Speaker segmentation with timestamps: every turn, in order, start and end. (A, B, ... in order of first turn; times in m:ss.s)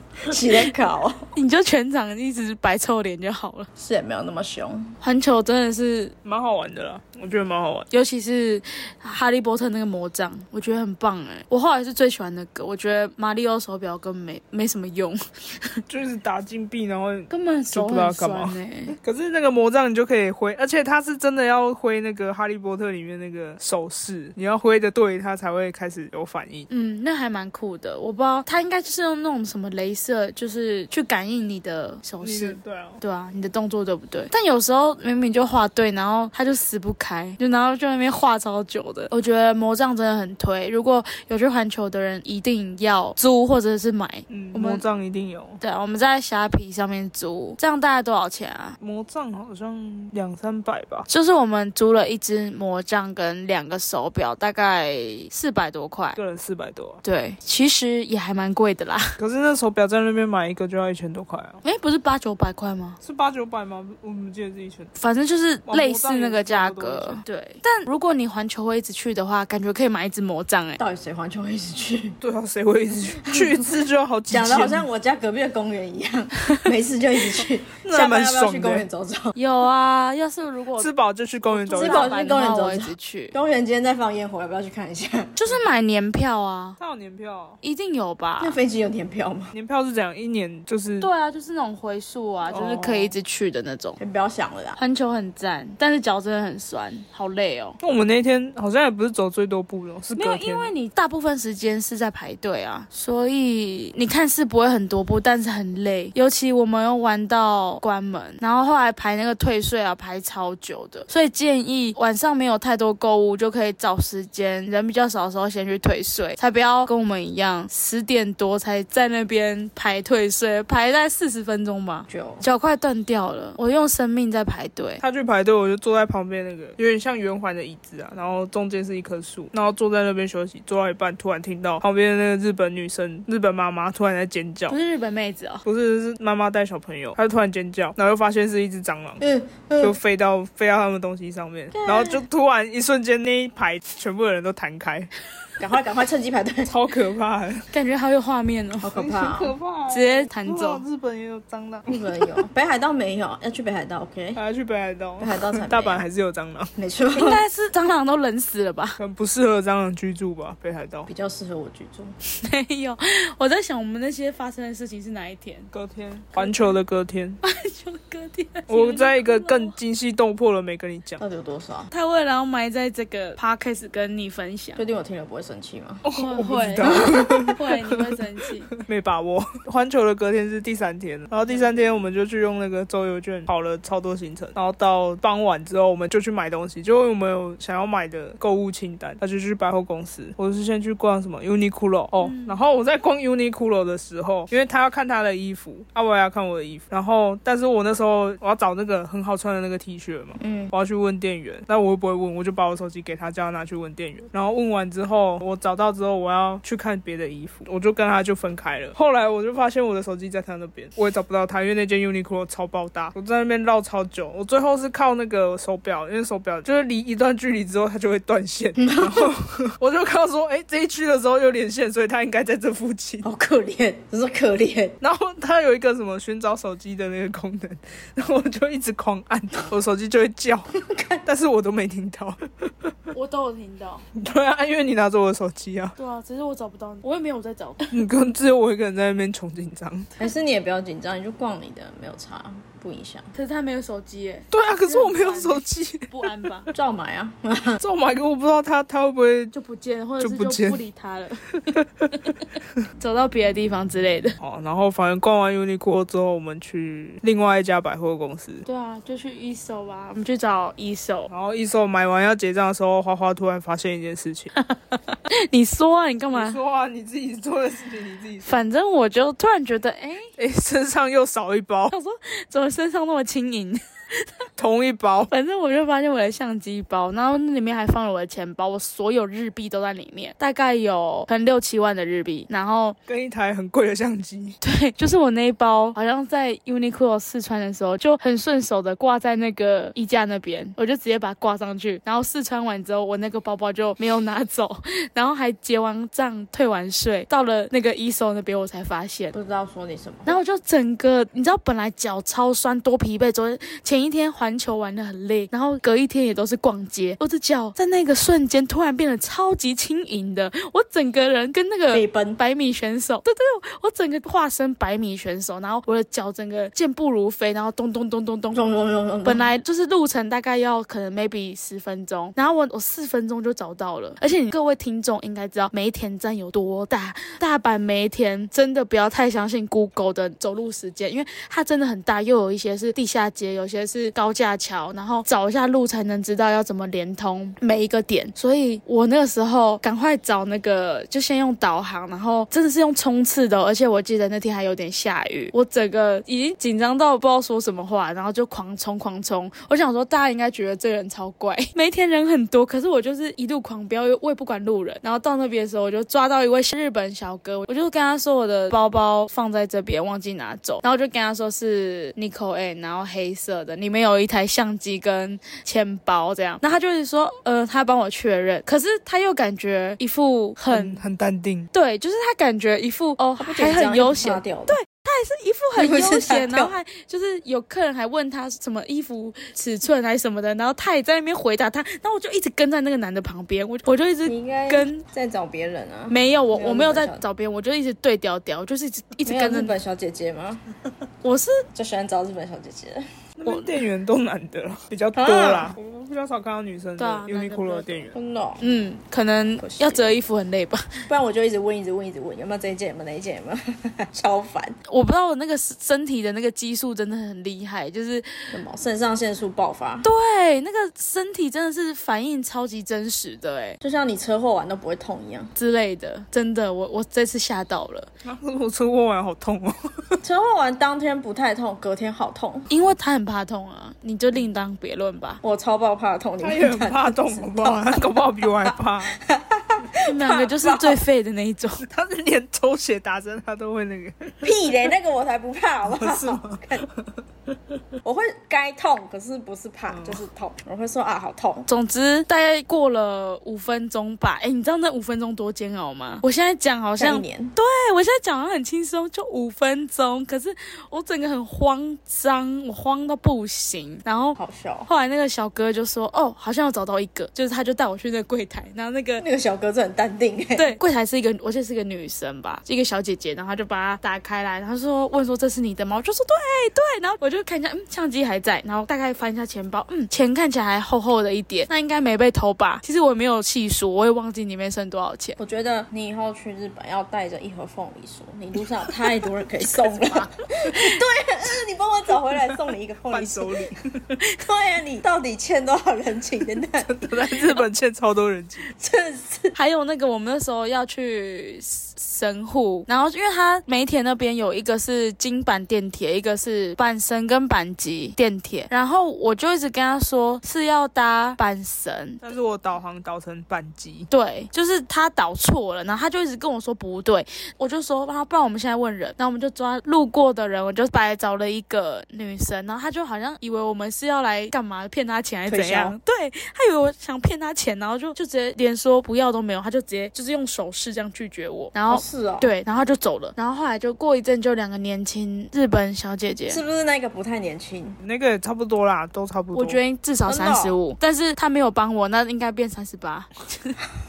0:00.2-0:01.3 A
0:01.3-0:03.7 B
0:03.8-0:04.9 A
0:05.0-0:06.1 B
0:06.2-0:07.9 C
0:07.9-0:15.8 B
0:15.9-0:26.7 C
0:17.3-0:19.0 B
0:26.7-0:44.8 B
0:32.2-0:33.0 C
0:44.3-0:45.6 C
0:45.6-0:48.8 B
0:48.8-0:51.0 C
0:51.1-0:56.2 B
0:56.2-0:57.0 C
0:57.0-0:59.1 B
0:59.2-1:01.6 C
1:01.6-1:03.0 B
1:03.0-1:04.9 C
1:05.0-1:10.8 B
1:05.6-1:07.2 C
1:10.8-1:12.2 A
1:12.2-1:14.8 C
1:13.2-1:13.6 A
1:14.3-1:19.3 A
1:17.8-1:18.8 C
1:19.3-1:20.9 B
1:20.8-1:22.2 C
1:21.5-1:23.3 B
1:21.7-1:25.4 A
1:25.4-1:26.8 B
1:26.8-1:27.6 C
1:27.6-1:28.6 B
1:28.4-1:29.5 A
1:29.5-1:31.1 C
1:31.0-1:34.0 B
1:32.5-1:32.8 A
1:32.6-1:33.1 C
1:34.0-1:34.8 A
1:34.8-1:37.8 B
1:37.8-1:40.7 C
1:40.1-2:05.0 B
2:02.1-2:02.4 A
2:05.0-2:14.8 C
2:14.7-2:15.6 B
2:15.6-2:19.2 C
2:19.2-2:19.9 A
2:19.8-2:25.1 C
2:21.7-2:22.2 A
2:25.6-2:26.7 A
2:26.6-2:27.7 C
2:27.7-2:29.1 B
2:28.8-2:29.5 A
2:29.0-2:32.2 C
2:29.9-2:30.8 B
2:31.9-2:34.4 A
2:34.3-2:36.7 C
2:35.2-2:36.0 A
2:36.8-2:37.4 A
2:37.1-2:39.0 B
2:39.0-2:41.1 C
2:41.1-2:42.1 A
2:42.4-2:45.7 B
2:45.7-2:47.4 C
2:46.4-2:46.7 A
2:47.4-2:49.7 B
2:48.7-2:51.2 C
2:51.2-2:51.9 A
2:51.9-2:54.8 B
2:54.8-2:56.0 A
2:56.0-2:58.2 C
2:56.1-2:58.7 B
2:58.8-3:43.2 C
3:12.2-3:12.6 B
3:20.4-3:20.7 A
3:38.8-3:39.3 A
3:43.2-3:45.0 A
3:45.0-3:50.7 C
3:50.8-3:51.2 A
3:51.2-3:52.9 C
3:53.1-3:54.0 B
3:54.1-3:55.9 C
3:56.0-3:57.9 B
3:57.9-4:00.1 C
4:00.2-4:03.3 A
4:03.3-4:06.7 B
4:04.5-4:06.5 C
4:06.7-4:07.8 A
4:07.8-4:09.5 C
4:09.5-4:11.6 B
4:10.2-4:10.8 C
4:11.6-4:12.3 C
4:13.0-4:14.4 B
4:14.4-4:18.6 C
4:18.6-4:21.3 B
4:21.3-4:24.5 C
4:24.6-4:26.6 B
4:26.3-4:28.6 C
4:28.4-4:30.3 B
4:30.4-4:31.9 C
4:31.9-4:34.4 B
4:34.6-4:35.3 C
4:35.3-4:43.0 B
4:43.1-4:44.6 C
4:44.6-4:59.3 B
4:59.3-5:00.4 A
5:00.2-5:18.7 B
5:11.9-5:12.4 A
5:18.5-5:19.5 A
5:19.2-6:11.0 B
6:10.7-6:11.7 C
6:11.7-6:25.0 B
6:13.4-6:14.7 A
6:15.8-6:16.7 A
6:24.2-6:27.2 A
6:26.1-6:29.7 B
6:29.2-6:30.6 A
6:31.2-6:31.6 B
6:31.7-6:33.0 A
6:33.4-6:38.1 C
6:35.1-6:35.7 A
6:37.0-6:40.9 B
6:38.1-6:38.6 A
6:39.6-6:40.2 A
6:41.1-6:44.8 A
6:44.9-6:48.3 B
6:48.5-6:50.0 A
6:50.0-6:53.8 B
6:53.8-6:55.5 A
6:55.6-6:58.1 B
6:58.2-7:00.2 C
7:00.2-7:02.7 A
7:02.7-7:05.4 B
7:05.4-7:11.0 A
7:06.4-7:09.2 C
7:10.0-7:11.8 B
7:11.8-7:14.5 C
7:14.4-7:16.8 A
7:15.9-7:17.1 C
7:18.0-7:21.7 A
7:19.9-7:20.2 C
7:21.7-7:39.2 B
7:27.0-7:27.5 A
7:34.4-7:34.9 A
7:39.2-7:40.7 A
7:40.5-7:55.4 B
7:55.4-8:03.7 A
8:00.7-8:01.0 B
8:03.0-8:04.1 C
8:04.4-8:07.5 A
8:06.8-8:08.7 C
8:08.6-8:09.5 A
8:09.5-8:22.2 B
8:22.2-8:24.1 C
8:24.1-8:46.6 B
8:35.5-8:35.9 A
8:41.9-8:42.5 A
8:46.5-8:48.0 A
8:48.0-8:49.8 C
8:49.5-8:53.8 B
8:50.3-8:50.8 A